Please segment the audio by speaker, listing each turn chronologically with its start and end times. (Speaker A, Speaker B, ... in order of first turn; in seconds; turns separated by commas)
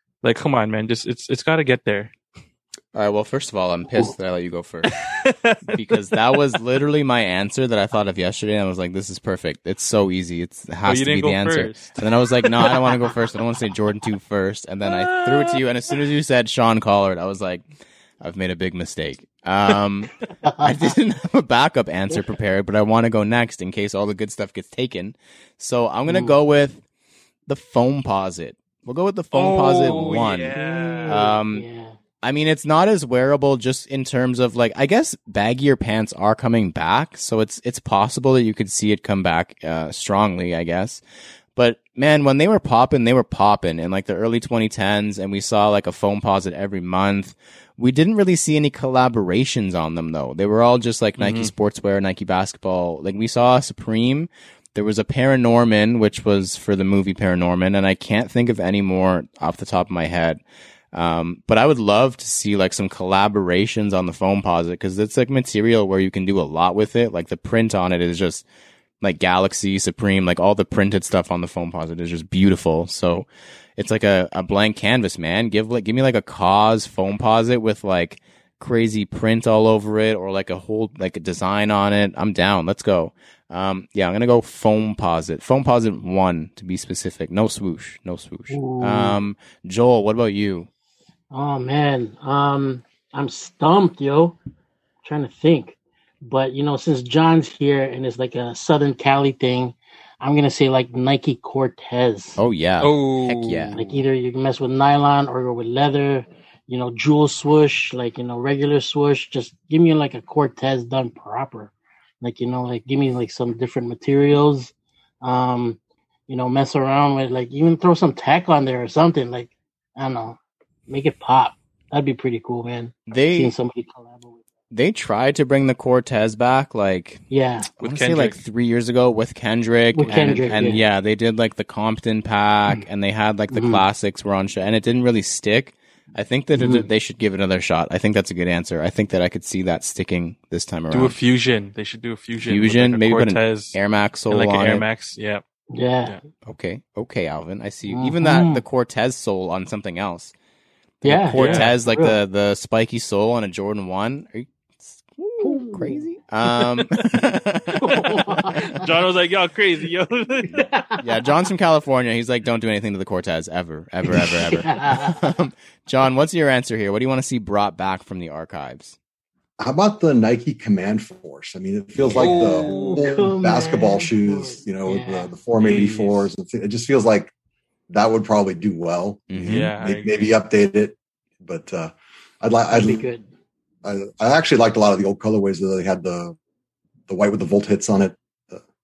Speaker A: 0.2-2.1, Speaker B: 2.9-5.0, Speaker A: 4.8-6.2, Speaker B: 5.7-17.6, Speaker A: 10.8-13.1, Speaker A: 14.8-15.6, Speaker B: 18.2-26.8, Speaker C: 20.4-20.9, Speaker C: 26.1-26.4, Speaker B: 27.5-30.5, Speaker A: 29.3-31.3, Speaker C: 30.5-32.0, Speaker B: 31.1-31.6, Speaker B: 32.2-41.0, Speaker B: 41.5-60.4, Speaker A: 51.2-51.5, Speaker B: 60.9-68.4, Speaker B: 69.0-90.7, Speaker C: 88.5-89.2, Speaker C: 91.3-94.4, Speaker C: 95.0-102.4, Speaker B: 102.4-103.8, Speaker A: 102.8-104.0, Speaker C: 103.7-124.4, Speaker B: 123.1-123.5, Speaker B: 124.7-127.2, Speaker C: 127.3-127.7, Speaker B: 127.8-141.1, Speaker A: 127.8-128.4, Speaker C: 129.9-130.8, Speaker C: 133.5-133.8, Speaker C: 136.5-136.9, Speaker A: 140.9-143.7, Speaker B: 142.4-144.8, Speaker A: 144.3-145.4, Speaker C: 145.7-146.2, Speaker B: 146.4-150.3, Speaker C: 147.9-148.6, Speaker B: 151.0-158.6, Speaker C: 151.0-152.2, Speaker A: 151.3-151.8, Speaker C: 155.4-156.0, Speaker C: 157.7-158.8, Speaker A: 158.5-160.7, Speaker C: 160.5-161.0, Speaker B: 161.0-169.0, Speaker C: 164.1-165.2, Speaker D: 169.6-177.3, Speaker A: 172.0-173.2, Speaker C: 172.3-175.3, Speaker A: 175.6-176.3, Speaker D: 177.9-183.1, Speaker B: 179.3-179.7, Speaker A: 179.4-180.3, Speaker C: 182.7-183.2, Speaker D: 183.8-186.4, Speaker D: 187.1-188.6